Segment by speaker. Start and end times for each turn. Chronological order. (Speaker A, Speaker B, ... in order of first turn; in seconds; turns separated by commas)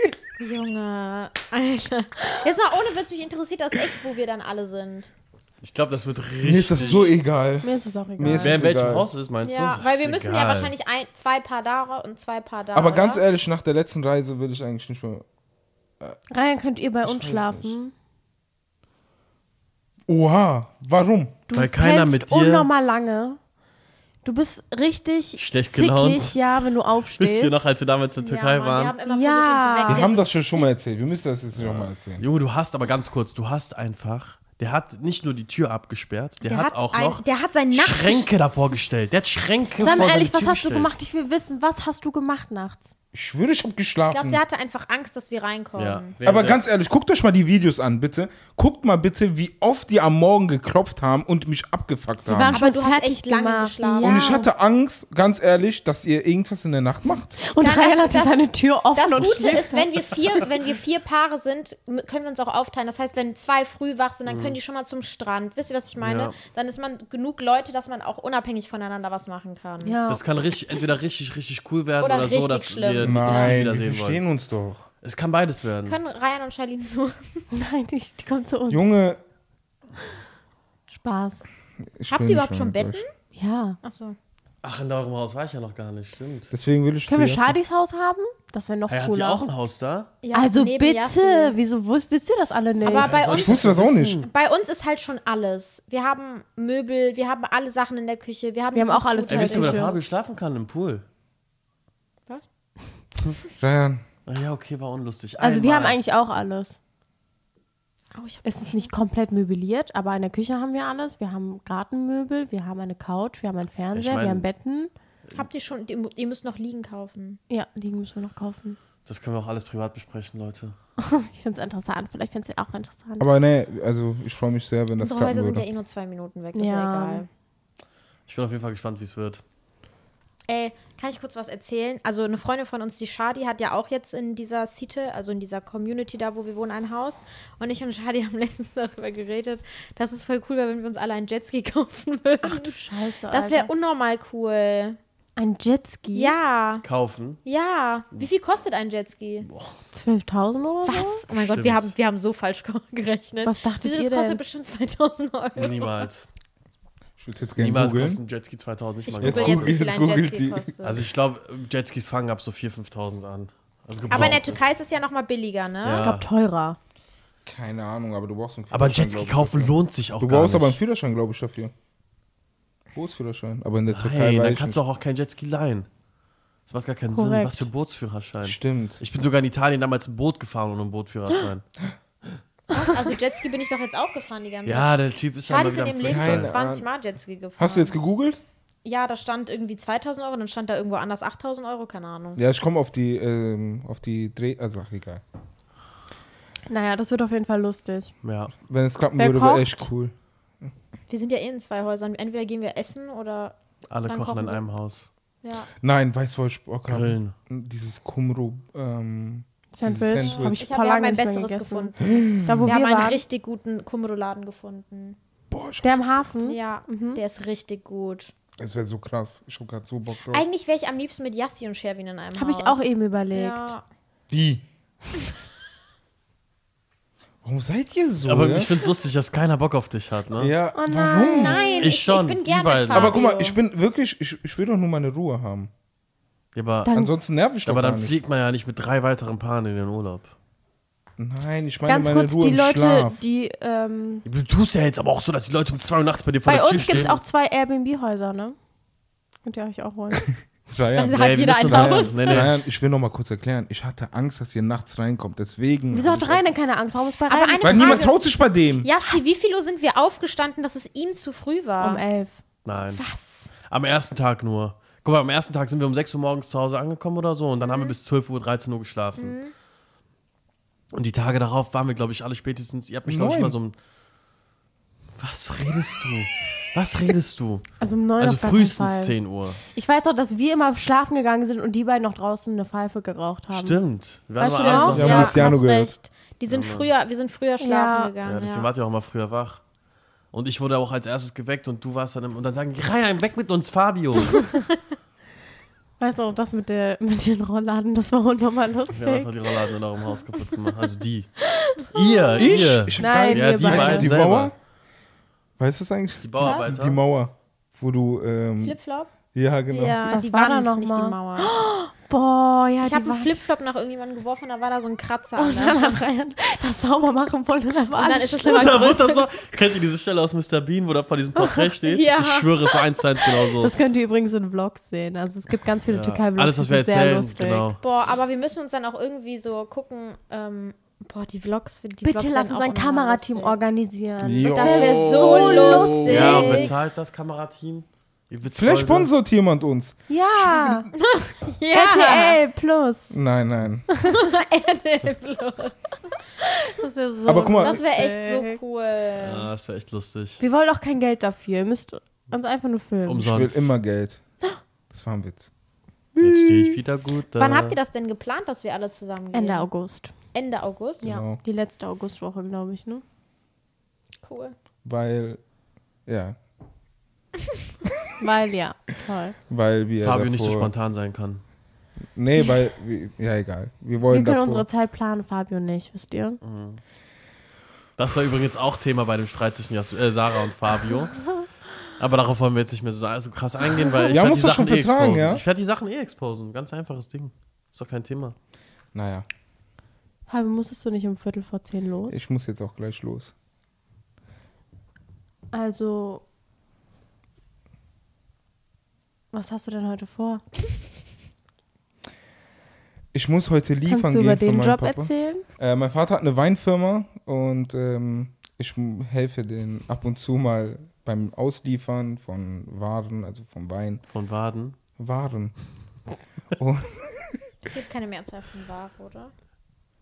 Speaker A: 0.4-5.1, Speaker B: 5.6-7.2, Speaker C: 6.4-9.1, Speaker A: 6.8-7.1, Speaker D: 7.6-8.6, Speaker B: 8.3-10.7, Speaker A: 9.4-13.2, Speaker C: 12.7-15.2, Speaker D: 16.3-17.9, Speaker C: 17.0-17.8, Speaker C: 20.1-21.4, Speaker D: 21.5-23.4, Speaker B: 21.5-22.7, Speaker D: 24.2-27.7, Speaker B: 25.4-26.4, Speaker B: 27.1-29.0, Speaker A: 28.2-30.6, Speaker D: 29.1-30.1, Speaker C: 29.9-32.2, Speaker B: 31.6-40.9, Speaker A: 36.4-38.3, Speaker D: 39.8-42.9, Speaker C: 43.1-44.4, Speaker A: 44.1-46.1, Speaker B: 45.8-46.6, Speaker C: 46.2-52.6, Speaker D: 52.3-54.5, Speaker A: 52.5-54.3, Speaker C: 54.0-57.4, Speaker D: 57.4-60.1, Speaker A: 57.6-70.0, Speaker B: 64.3-64.6, Speaker B: 66.0-66.4, Speaker D: 69.8-70.2, Speaker B: 70.1-74.2, Speaker A: 72.0-73.6, Speaker C: 73.0-74.9, Speaker B: 75.0-76.0, Speaker A: 75.8-77.5, Speaker D: 77.5-78.9, Speaker C: 78.7-79.2, Speaker D: 80.9-81.4, Speaker C: 82.0-83.0, Speaker A: 82.1-83.1, Speaker D: 83.3-83.8, Speaker A: 83.8-84.2, Speaker B: 84.6-86.5, Speaker C: 86.5-87.6, Speaker D: 87.1-89.5, Speaker B: 88.9-90.1, Speaker A: 90.2-91.6, Speaker D: 90.3-93.2, Speaker A: 92.8-100.0, Speaker B: 92.9-94.3, Speaker C: 93.3-94.2, Speaker D: 98.7-100.0, Speaker B: 99.3-101.0, Speaker C: 103.6-104.0, Speaker B: 104.3-106.0, Speaker D: 105.4-106.8, Speaker A: 108.1-108.9, Speaker D: 108.4-114.9, Speaker B: 113.9-114.5, Speaker A: 115.3-117.4, Speaker D: 117.5-118.8, Speaker B: 119.1-120.8, Speaker D: 121.0-123.3, Speaker C: 123.2-125.7, Speaker A: 125.0-127.3, Speaker D: 126.5-127.3, Speaker B: 128.3-129.4, Speaker A: 130.5-142.8, Speaker D: 142.4-143.7, Speaker A: 143.3-145.0, Speaker D: 145.4-146.3, Speaker A: 146.1-146.8, Speaker B: 146.8-147.4, Speaker A: 147.4-149.5, Speaker B: 149.5-149.8, Speaker D: 149.9-151.2, Speaker A: 150.8-156.1, Speaker B: 151.3-151.9, Speaker D: 153.4-154.4, Speaker B: 155.6-156.3, Speaker C: 157.2-158.2, Speaker B: 157.6-159.9, Speaker A: 159.1-161.0, Speaker C: 159.2-160.7, Speaker B: 160.8-164.7, Speaker A: 164.1-166.1, Speaker C: 164.1-164.4, Speaker B: 165.8-166.3, Speaker D: 166.0-166.8, Speaker C: 167.5-171.7, Speaker B: 168.7-170.8, Speaker C: 172.9-174.8, Speaker B: 173.9-175.9, Speaker B: 176.7-181.7, Speaker D: 177.1-177.7, Speaker C: 178.4-179.0, Speaker A: 182.7-188.0, Speaker B: 184.7-186.5, Speaker C: 186.0-186.9, Speaker C: 187.6-188.4, Speaker A: 188.8-192.4, Speaker C: 192.4-195.2, Speaker D: 196.7-198.1, Speaker B: 198.2-198.5, Speaker C: 198.6-200.1, Speaker D: 199.2-199.9, Speaker A: 201.1-203.6, Speaker B: 203.9-205.1, Speaker A: 204.1-204.6, Speaker A: 205.4-205.7, Speaker C: 205.8-210.6, Speaker B: 206.9-207.3, Speaker D: 209.7-211.9, Speaker A: 210.2-212.1, Speaker C: 212.0-212.7, Speaker D: 212.4-213.2, Speaker A: 212.7-215.2, Speaker C: 215.5-216.2, Speaker D: 215.8-217.2, Speaker A: 216.4-218.3, Speaker C: 218.6-220.4, Speaker A: 220.3-223.8, Speaker D: 222.3-223.8, Speaker C: 224.3-224.7, Speaker C: 227.4-228.7, Speaker B: 228.2-230.5, Speaker C: 230.4-231.8, Speaker D: 230.8-231.9, Speaker A: 231.3-233.6, Speaker B: 231.8-233.2, Speaker C: 232.9-235.7, Speaker B: 236.6-236.9, Speaker D: 236.9-237.1, Speaker C: 236.9-238.2, Speaker B: 237.7-240.3, Speaker C: 241.2-243.2, Speaker D: 241.9-244.2, Speaker B: 244.2-247.2, Speaker D: 246.5-248.6, Speaker D: 249.4-250.3, Speaker C: 250.7-256.4, Speaker A: 250.9-252.5, Speaker B: 251.2-252.5, Speaker D: 255.9-258.1, Speaker A: 257.3-258.2, Speaker C: 257.6-258.9, Speaker A: 258.8-262.0, Speaker D: 261.8-262.4, Speaker B: 262.6-263.0, Speaker A: 262.9-263.5, Speaker B: 263.7-269.4, Speaker A: 267.6-268.0, Speaker A: 269.2-269.5, Speaker B: 270.9-273.8, Speaker C: 273.1-273.6, Speaker B: 275.2-277.7, Speaker D: 277.8-279.1, Speaker B: 278.2-279.6, Speaker D: 279.8-283.8, Speaker B: 283.5-285.6, Speaker D: 284.4-285.2, Speaker A: 284.4-288.7, Speaker C: 284.9-285.9, Speaker B: 286.5-286.9, Speaker D: 287.6-288.1, Speaker B: 288.2-289.6, Speaker B: 290.3-294.5, Speaker D: 296.0-299.3, Speaker B: 298.9-304.5, Speaker C: 302.4-304.5, Speaker D: 303.0-304.1, Speaker C: 305.6-308.8, Speaker B: 306.2-307.0, Speaker A: 308.6-309.1, Speaker C: 309.3-310.0, Speaker A: 309.7-311.5, Speaker D: 310.1-313.4, Speaker A: 312.8-316.0, Speaker D: 315.4-318.8, Speaker A: 317.9-319.3, Speaker B: 318.4-323.7, Speaker A: 321.6-323.4, Speaker D: 323.6-327.7, Speaker B: 325.9-327.8, Speaker A: 327.8-333.6, Speaker D: 332.0-336.7, Speaker C: 334.2-336.6, Speaker A: 334.5-336.7, Speaker B: 336.0-339.1, Speaker C: 338.6-340.9, Speaker D: 340.1-340.9, Speaker A: 340.9-342.4, Speaker D: 341.7-343.2, Speaker C: 343.1-343.9, Speaker A: 344.1-346.1, Speaker D: 346.6-348.6, Speaker C: 347.3-347.8, Speaker A: 347.6-349.5, Speaker B: 349.2-350.4, Speaker D: 350.4-353.4, Speaker B: 353.1-353.7, Speaker C: 353.2-354.2, Speaker C: 354.9-355.5, Speaker C: 356.1-356.8, Speaker B: 356.2-357.8, Speaker A: 357.4-359.7, Speaker D: 359.3-360.1, Speaker A: 360.3-361.1, Speaker C: 361.0-361.4, Speaker D: 361.0-363.0, Speaker A: 364.2-364.6, Speaker C: 364.9-365.4, Speaker C: 366.1-366.4, Speaker D: 368.2-369.4, Speaker C: 369.5-370.7, Speaker B: 370.0-371.4, Speaker C: 372.1-374.7, Speaker D: 374.1-376.4, Speaker B: 376.4-376.8, Speaker B: 378.0-381.3, Speaker B: 382.0-388.4, Speaker C: 384.1-385.4, Speaker C: 388.9-389.3, Speaker D: 390.3-392.2, Speaker C: 392.1-393.3, Speaker D: 395.5-396.2, Speaker D: 399.3-400.4, Speaker C: 403.1-414.0, Speaker D: 403.9-405.4, Speaker B: 414.1-414.8, Speaker C: 415.0-415.6, Speaker C: 416.5-417.5, Speaker A: 417.6-419.3